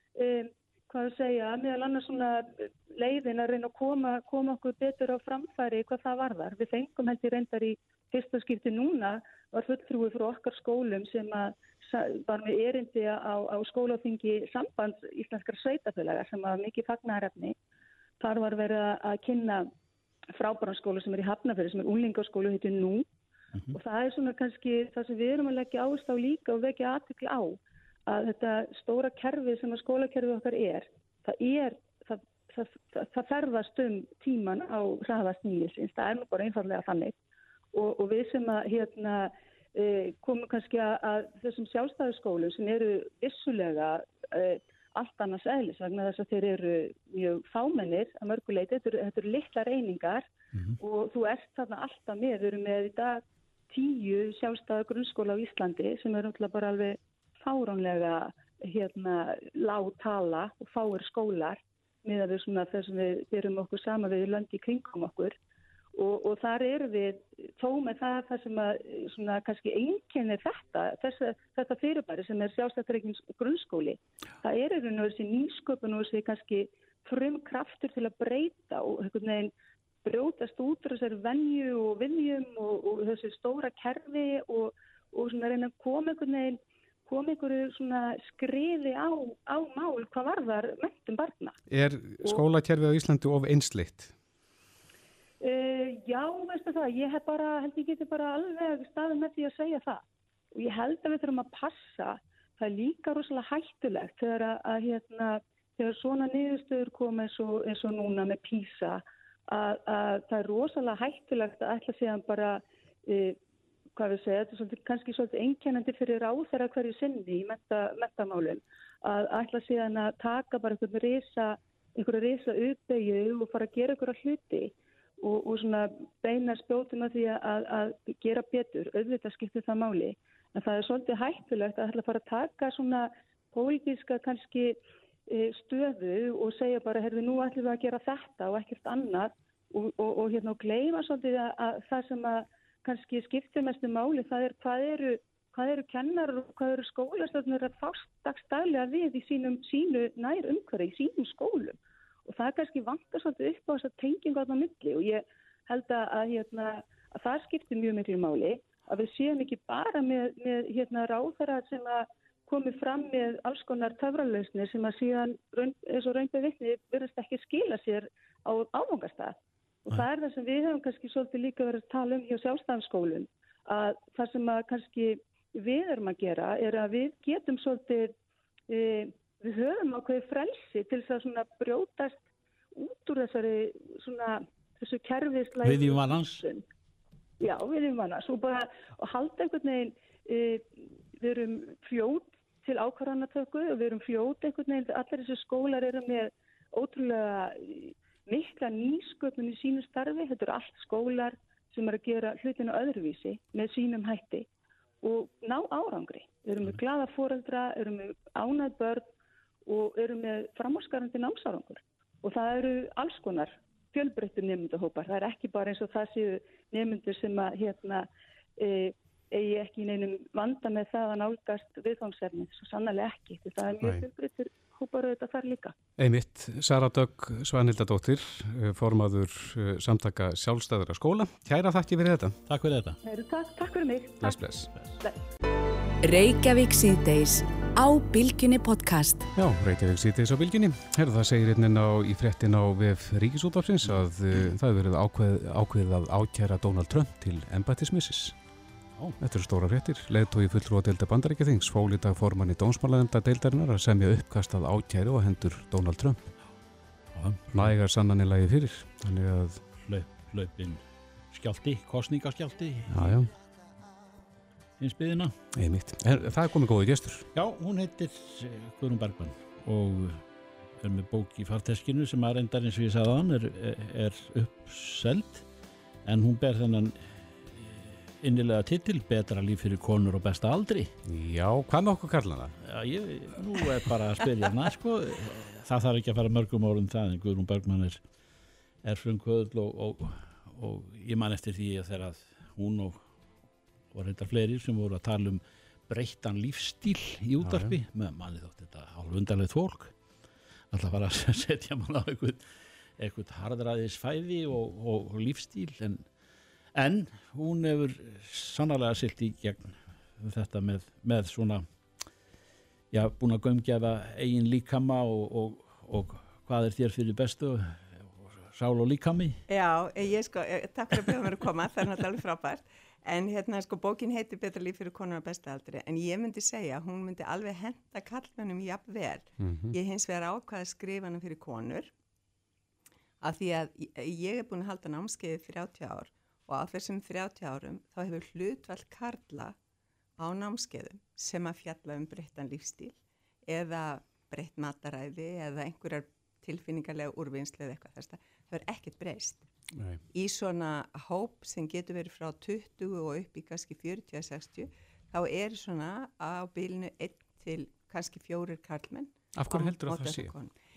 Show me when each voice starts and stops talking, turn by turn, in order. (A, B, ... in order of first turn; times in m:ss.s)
0:00.2-0:17.6 A
0:18.2-0:19.7 A
0:20.4-0:23.1 A
0:23.7-0:37.1 A
0:37.7-0:50.3 A
0:50.8-1:05.4 A
1:06.0-1:19.5 A
1:20.0-1:31.6 A
1:31.7-1:34.1 B
1:35.4-1:53.4 A
1:54.0-2:14.8 A
2:15.3-2:58.1 A
2:58.7-3:02.2 A
3:02.8-3:06.6 A
3:05.6-3:06.4 C
3:07.4-3:10.6 A
3:11.2-3:24.5 A
3:25.0-3:29.1 A
3:29.6-3:38.1 A
3:38.6-3:45.7 A
3:46.0-3:52.4 B
3:52.5-3:53.0 C
3:53.0-3:54.4 A
3:54.2-3:54.7 B
3:56.0-3:59.3 D
3:59.4-4:08.4 B
4:09.2-4:16.2 B
4:17.1-4:17.7 C
4:17.5-4:19.6 B
4:19.8-4:23.1 C
4:22.9-4:23.3 B
4:24.8-4:25.4 C
4:25.6-4:27.3 B
4:27.3-4:30.2 C
4:30.8-4:35.4 C
4:36.0-4:40.9 C
4:41.1-4:42.6 B
4:42.6-4:48.0 C
4:48.8-4:53.0 C
4:53.9-4:59.9 C
4:57.4-4:57.8 B
5:00.7-5:02.4 C
5:03.0-5:06.0 C
5:06.8-5:11.6 C
5:12.9-5:17.9 C
5:18.5-5:19.4 C
5:19.5-5:31.9 E
5:29.4-5:29.8 B
5:33.2-5:39.6 E
5:40.2-5:49.5 E
5:49.8-5:50.0 B
5:50.1-6:00.5 E
5:59.4-6:00.3 B